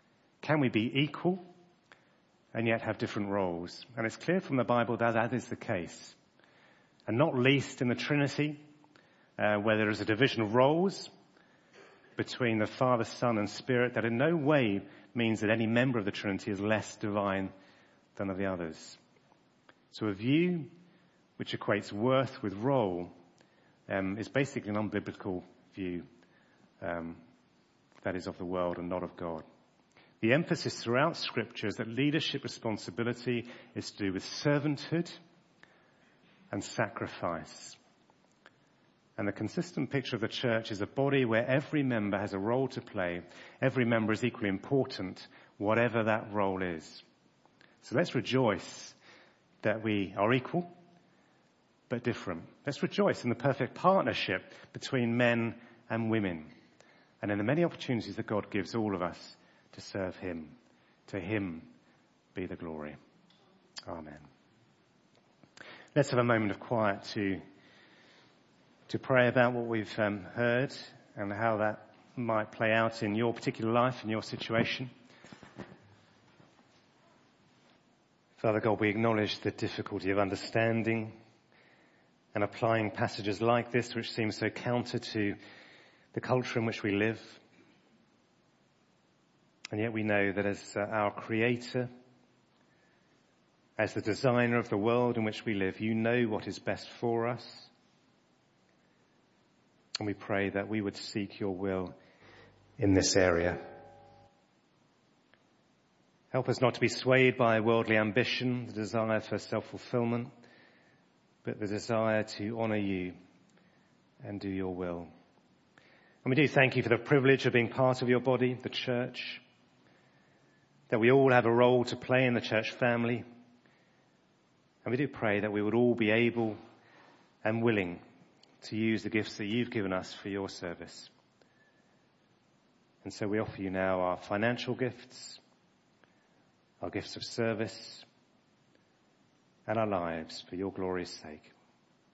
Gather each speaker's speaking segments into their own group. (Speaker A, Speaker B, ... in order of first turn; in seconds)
Speaker A: 0.4-1.4, 2.5-6.2, 7.1-8.6, 9.4-11.1, 12.2-17.5, 18.2-19.0, 19.9-20.7, 21.4-23.1, 23.9-26.1, 26.8-27.2, 28.0-29.4, 30.2-35.1, 36.5-37.8, 39.2-47.0, 47.8-49.0, 49.6-50.7, 51.9-56.5, 57.2-60.5, 61.1-61.7, 62.3-63.0, 63.9-64.3, 66.0-67.4, 68.9-74.9, 78.4-81.2, 82.3-85.4, 86.1-87.4, 89.7-91.9, 93.8-97.7, 100.0-102.0, 102.8-103.6, 106.3-110.3, 111.4-113.2, 114.2-115.1, 116.2-119.4, 120.9-123.2, 124.8-126.6, 127.4-128.0, 128.6-131.1, 133.0-135.4, 136.8-138.1, 139.7-141.5